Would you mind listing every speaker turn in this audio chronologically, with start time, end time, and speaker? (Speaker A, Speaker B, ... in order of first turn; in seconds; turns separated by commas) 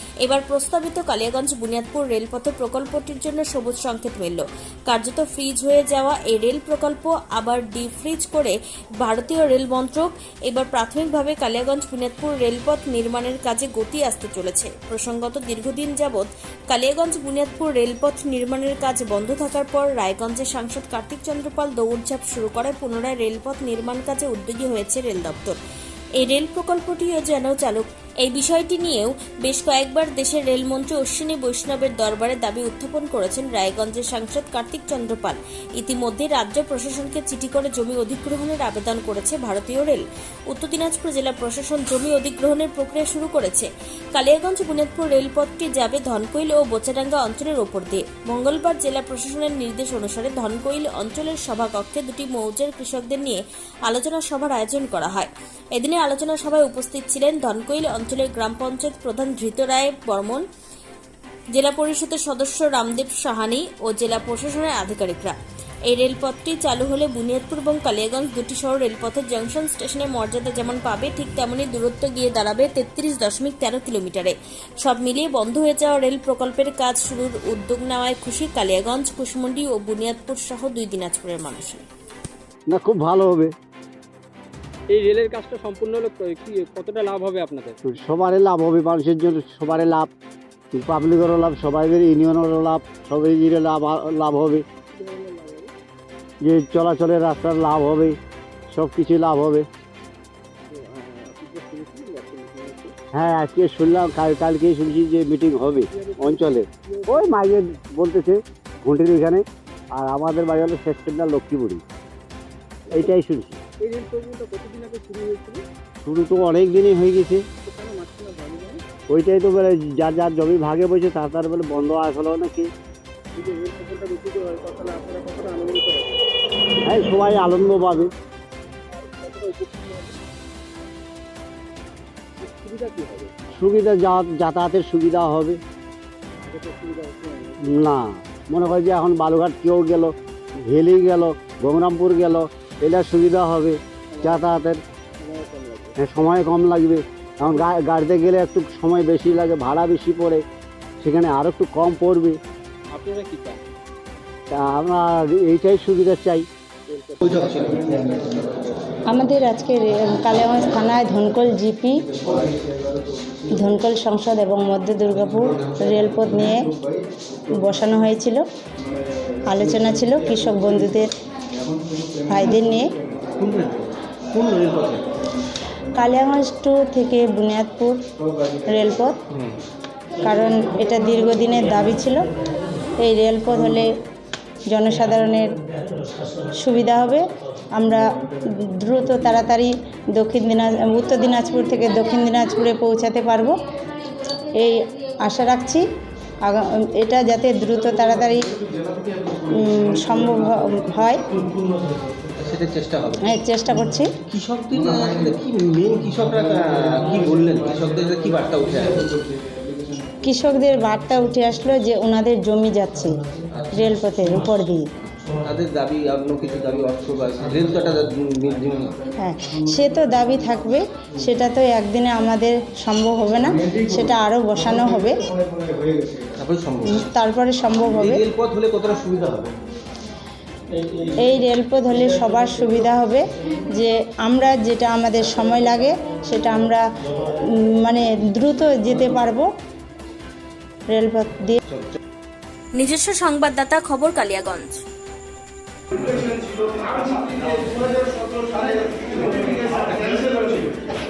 Speaker A: 0.2-25.6, Speaker A: 26.2-60.4, Speaker A: 61.5-81.8, Speaker B: 82.7-83.5, Speaker C: 84.9-87.8, Speaker B: 87.8-90.1, Speaker B: 90.7-94.6, Speaker C: 94.9-95.7, Speaker B: 96.4-98.2, Speaker B: 98.7-99.7, Speaker C: 100.7-102.9, Speaker B: 103.1-111.8, Speaker C: 105.9-107.4, Speaker B: 112.9-113.6, Speaker C: 113.8-115.6, Speaker B: 116.0-117.5, Speaker C: 117.6-118.8, Speaker B: 119.1-122.7, Speaker C: 123.3-126.2, Speaker B: 126.8-128.1, Speaker C: 128.9-130.2, Speaker C: 132.4-133.3, Speaker B: 133.5-135.6, Speaker C: 136.4-137.7, Speaker B: 137.6-144.8, Speaker C: 144.1-144.5, Speaker C: 145.2-146.0, Speaker B: 146.0-150.4, Speaker B: 151.0-152.4, Speaker C: 152.9-153.6, Speaker B: 154.5-156.5, Speaker C: 156.9-158.6, Speaker D: 157.2-157.9, Speaker E: 159.1-162.0, Speaker E: 163.5-166.7, Speaker D: 165.2-166.3, Speaker E: 167.5-168.4, Speaker E: 169.4-171.1, Speaker E: 172.3-172.9, Speaker D: 173.3-175.1, Speaker E: 175.9-178.0, Speaker E: 178.7-179.2, Speaker D: 179.3-179.6, Speaker E: 180.2-182.3, Speaker E: 183.0-183.9, Speaker E: 184.7-185.6, Speaker E: 186.6-188.2, Speaker E: 188.8-193.6, Speaker E: 194.5-195.8, Speaker E: 196.4-198.5, Speaker E: 199.5-201.2, Speaker D: 202.4-203.3, Speaker E: 203.2-204.1, Speaker D: 204.3-209.2, Speaker E: 210.2-214.8, Speaker D: 215.4-219.0, Speaker E: 219.2-225.3, Speaker D: 226.3-227.1, Speaker E: 226.9-228.2, Speaker D: 227.8-229.6, Speaker E: 231.2-239.5, Speaker E: 240.9-241.6, Speaker A: 242.7-244.8